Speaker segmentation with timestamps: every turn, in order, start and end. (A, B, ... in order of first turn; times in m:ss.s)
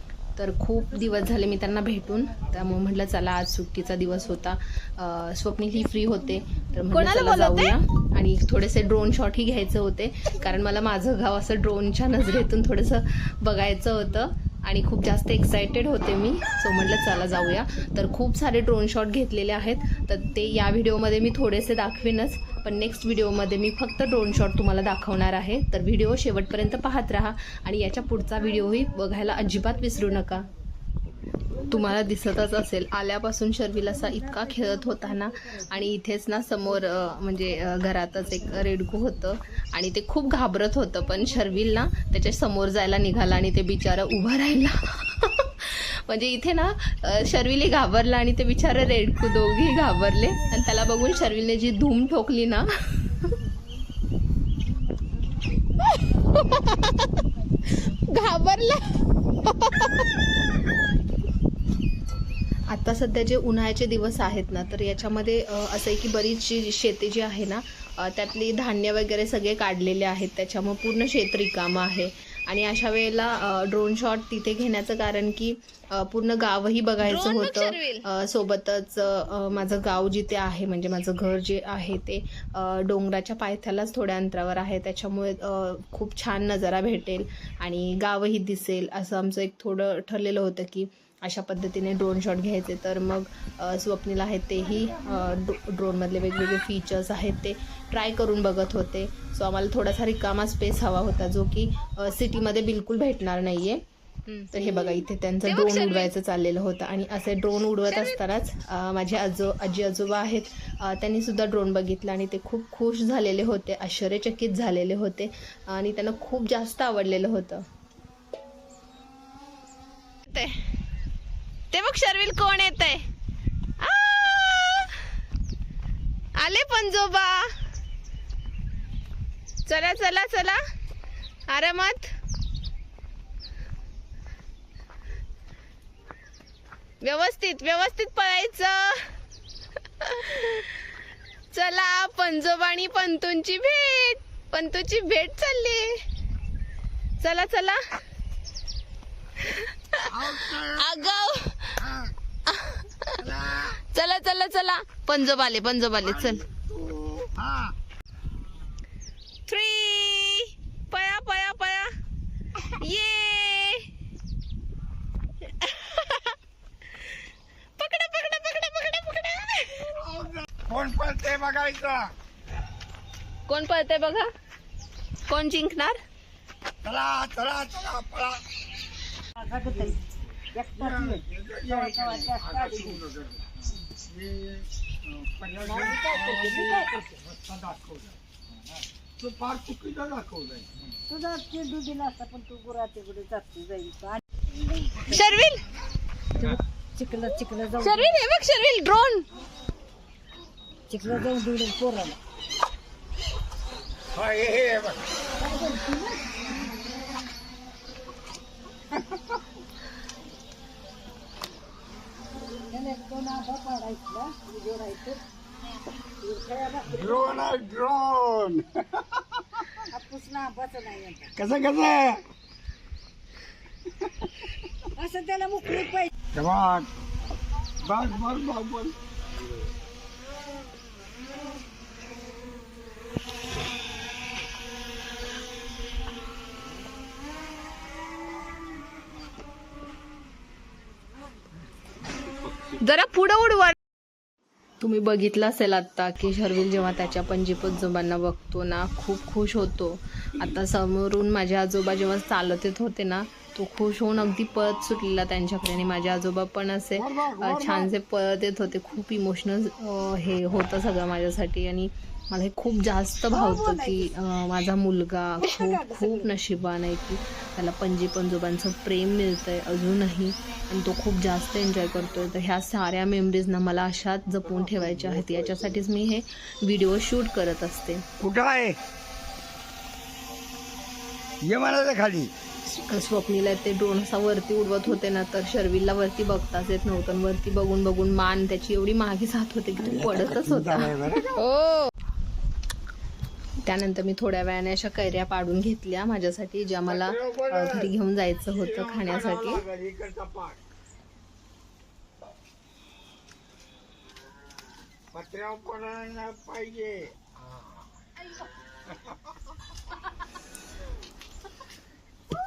0:00.4-0:30.5 A
0:06.9-0:07.8 B
0:31.6-0:53.3 A
0:34.1-0:35.9 C
0:54.8-0:55.7 C
0:56.1-0:57.0 B
0:57.9-0:58.9 B
0:59.4-1:00.0 B
1:02.7-1:43.8 A
1:17.0-1:18.0 B
1:44.5-1:57.6 A
1:45.4-1:46.1 B
1:47.9-1:48.2 B
2:00.3-2:00.5 B
2:01.7-2:03.1 B
2:03.8-2:05.1 B
2:06.4-2:07.5 B
2:09.7-2:10.6 B
2:11.5-2:12.1 B
2:17.0-2:19.0 B
2:20.0-2:20.7 B
2:21.5-2:25.9 B
2:27.2-2:27.8 B
2:30.0-2:31.2 D
2:30.7-2:31.7 B
2:31.8-2:32.1 D
2:33.2-2:33.8 D
2:33.9-2:36.3 B
2:36.0-2:37.7 D
2:39.5-2:41.9 B
2:42.6-2:43.8 B
2:45.4-2:46.3 B
2:47.8-2:49.9 B
2:50.0-2:52.1 D
2:53.5-2:54.2 B
2:55.3-2:55.9 B
2:56.8-2:58.4 D
2:59.4-3:00.0 C
3:00.5-3:03.0 C
3:00.8-3:03.5 D
3:04.1-3:08.2 D
3:05.6-3:07.1 C
3:09.2-3:10.7 D
3:11.1-3:15.1 C
3:15.1-3:15.6 B
3:16.4-3:18.2 C
3:17.8-3:19.2 B
3:20.9-3:22.2 C
3:24.1-3:25.0 D
3:25.4-3:27.0 C
3:32.7-3:35.2 C
3:36.2-3:37.4 C
3:36.9-3:39.7 D
3:39.9-3:41.3 C
3:41.4-3:42.2 D
3:45.0-3:46.1 C
3:46.3-3:46.9 D
3:47.8-3:49.0 D
4:02.8-4:03.7 B
4:04.8-4:38.0 A
4:16.9-4:17.9 D
4:23.3-4:24.1 C
4:25.4-4:26.3 C
4:34.5-4:35.8 D
4:38.2-4:38.8 D
4:41.4-4:42.3 D
4:42.7-4:50.9 A
4:49.8-4:51.4 D
4:51.4-4:51.9 B
4:53.6-4:59.6 A
4:56.9-4:57.9 D
4:58.5-5:00.6 D
5:05.1-5:07.6 D